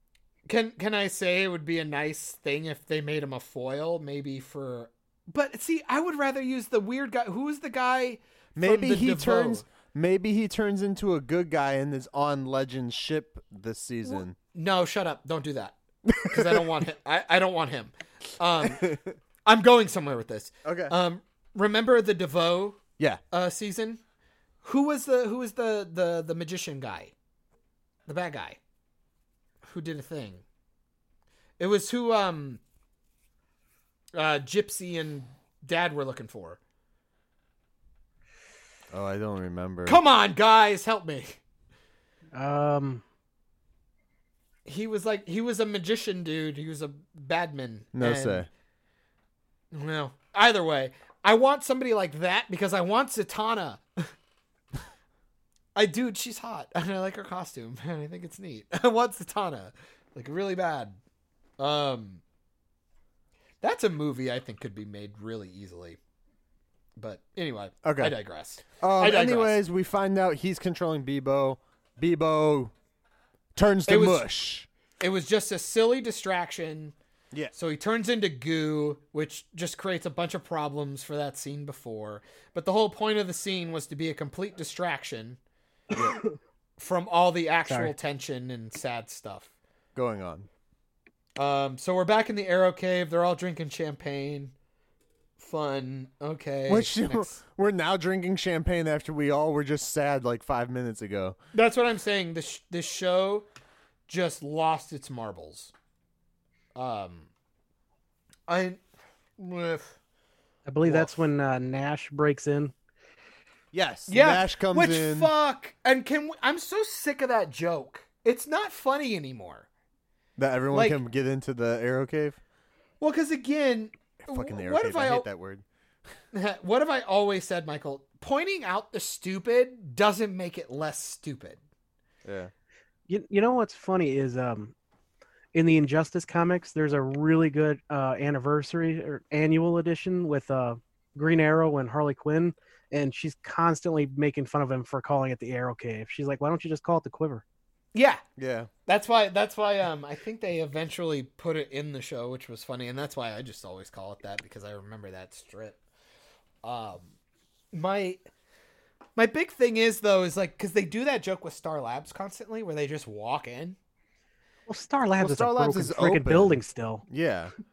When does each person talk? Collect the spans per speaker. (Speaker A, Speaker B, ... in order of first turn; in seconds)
Speaker A: 0.5-9.6, 14.1-18.9, 19.4-24.0, 24.6-27.1, 28.1-28.6, 29.6-30.4, 31.6-32.6, 34.1-36.6, 39.9-41.4, 44.6-48.5, 49.7-54.1, 55.7-61.0, 61.6-62.2, 63.6-66.0, 67.0-69.5, 73.9-74.2, 75.0-76.9, 77.5-85.4, 86.8-89.5, 91.4-94.5, 95.4-97.4, 101.5-103.5, 104.1-105.7, 106.7-107.3, 108.5-108.8, 109.4-110.0, 110.8-111.1, 114.1-119.7, 120.7-121.0, 123.0-125.3, 126.3-131.6, 147.9-148.2, 148.9-155.8, 156.6-157.1, 157.7-158.2, 159.2-163.8
Speaker B: 8.6-14.3, 16.1-16.6, 18.6-19.1, 20.6-20.9, 38.9-40.0, 47.9-48.5, 67.8-68.1, 68.8-72.7, 73.5-74.7, 89.9-90.5, 96.7-101.3, 113.7-115.3, 120.4-122.4, 124.2-125.6, 132.2-132.5, 148.4-148.7, 165.2-167.5
Speaker C: 42.3-43.0, 87.7-87.9, 110.7-112.7, 133.1-134.7, 135.5-147.4, 164.7-167.0